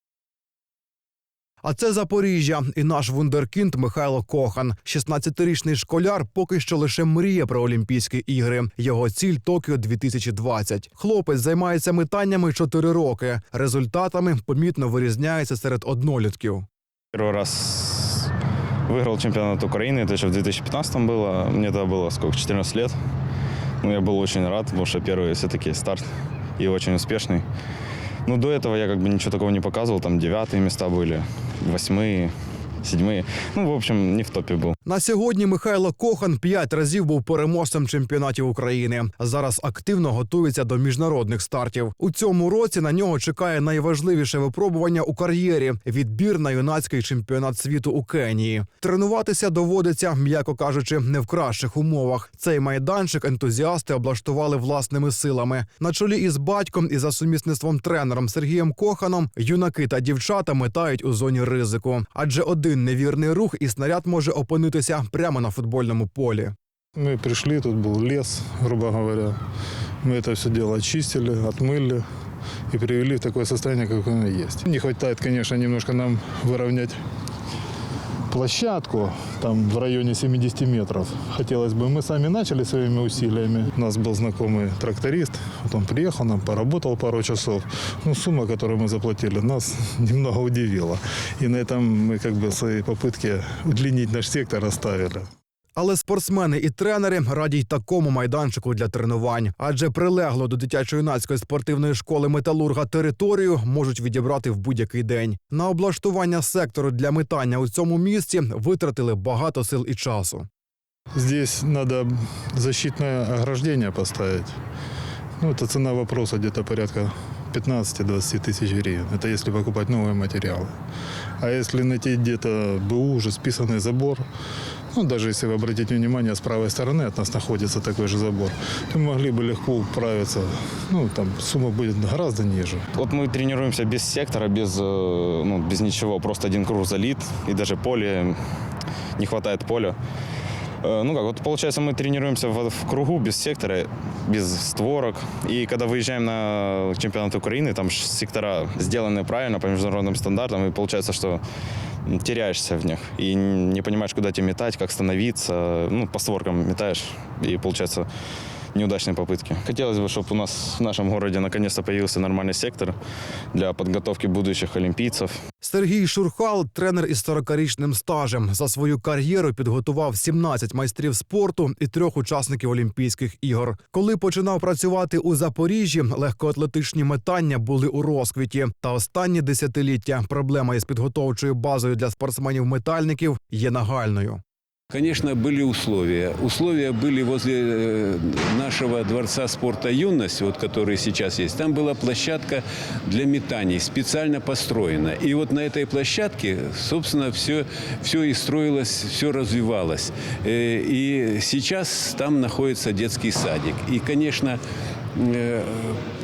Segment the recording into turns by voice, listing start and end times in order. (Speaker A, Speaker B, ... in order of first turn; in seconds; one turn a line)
Speaker A: 1.6-16.6
Speaker B: 17.1-18.3
Speaker B: 18.9-22.9
Speaker B: 23.8-26.1
Speaker B: 26.6-27.4
Speaker B: 28.2-32.3
Speaker B: 32.8-34.7
Speaker A: 34.8-66.5
Speaker C: 67.0-69.4
Speaker C: 70.0-72.0
Speaker C: 72.7-77.0
Speaker C: 78.3-95.2
Speaker A: 95.8-110.5
Speaker C: 111.2-114.6
Speaker C: 115.4-120.7
Speaker C: 121.4-124.2
Speaker C: 124.9-132.9
Speaker B: 132.9-138.3
Speaker B: 139.2-139.9
Speaker B: 140.8-151.4
Speaker B: 152.1-158.1
Speaker B: 158.7-162.9
Speaker B: 163.5-165.3
Speaker A: 165.6-184.4
Speaker D: 184.9-204.6
Speaker D: 205.2-206.0